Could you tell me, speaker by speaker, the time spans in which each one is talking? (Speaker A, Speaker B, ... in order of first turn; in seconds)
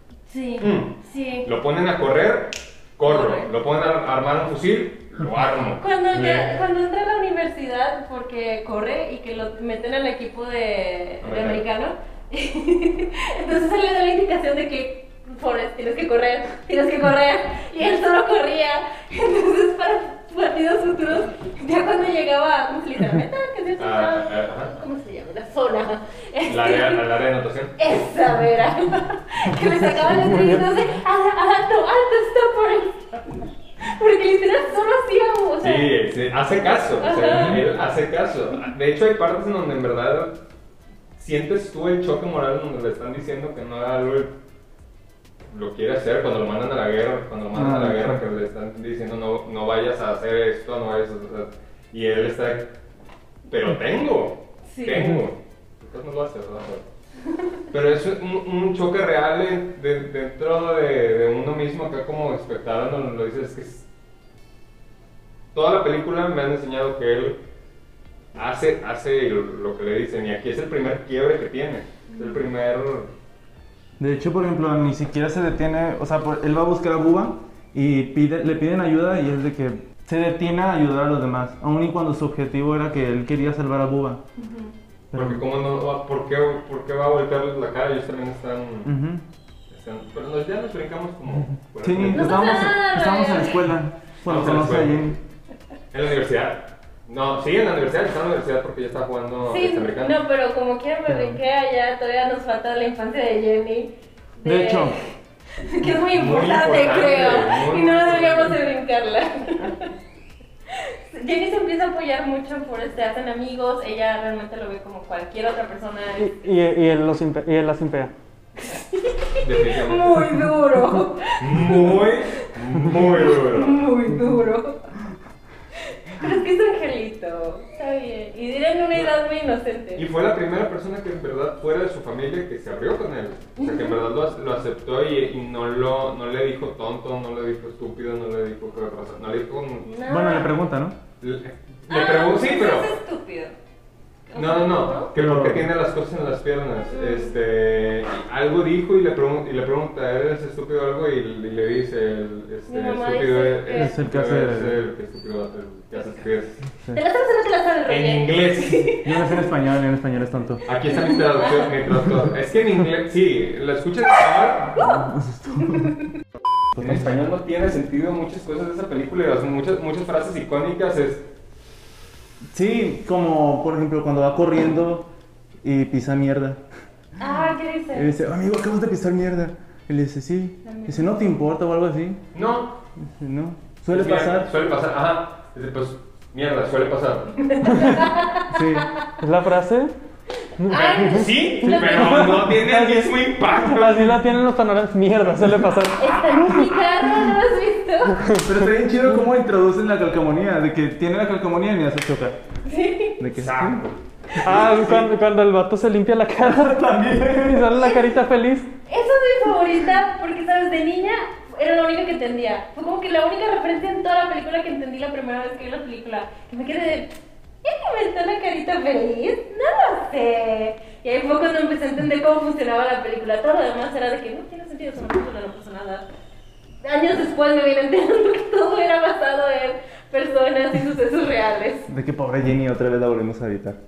Speaker A: 0.3-1.5, 3.0-3.5, 5.8-27.1, 27.8-35.9, 36.9-37.6, 54.6-55.2, 72.1-72.4, 84.4-84.7, 92.1-93.6, 99.4-109.9, 110.7-116.5, 118.6-124.9, 125.8-130.0, 133.6-134.0, 139.8-140.5, 141.9-143.6, 144.3-145.1, 146.9-147.3, 152.7-153.9, 156.9-159.3, 161.1-161.7, 165.7-166.0, 177.2-178.2, 180.6-181.1, 187.4-189.0, 190.7-192.2, 195.9-198.2, 202.6-203.2, 208.9-226.1, 226.8-231.9
Speaker B: 0.6-6.5, 11.2-11.6, 23.8-24.7, 26.4-27.8, 35.6-40.4, 41.1-44.3, 45.5-52.8, 53.5-56.9, 57.7-63.9, 65.5-67.4, 68.3-73.1, 85.1-88.9, 89.7-92.7, 94.2-95.0, 95.9-100.2, 105.9-108.6, 119.4-120.4, 121.4-123.9, 129.9-139.9, 141.2-142.9, 144.3-156.6, 157.9-159.0, 160.6-164.9, 166.8-171.3, 182.3-182.8, 183.9-187.3, 190.8-194.2, 196.0-196.8, 203.3-205.1
Speaker C: 30.2-30.7, 116.2-118.1, 187.7-188.0, 189.2-189.9, 190.6-196.5, 198.2-198.6, 204.4-208.7
Speaker D: 47.5-48.2, 74.0-84.2, 85.1-85.4, 88.8-89.2, 91.8-95.2, 101.1-101.4, 104.4-105.0, 140.0-141.0, 145.1-145.7, 153.7-154.8, 159.0-160.6, 164.8-165.9, 166.7-167.0, 172.5-175.1, 175.6-176.6, 177.9-182.2, 183.0-184.5, 188.4-189.0, 191.6-192.8, 198.3-202.4, 203.2-203.8, 206.4-207.8, 231.9-233.8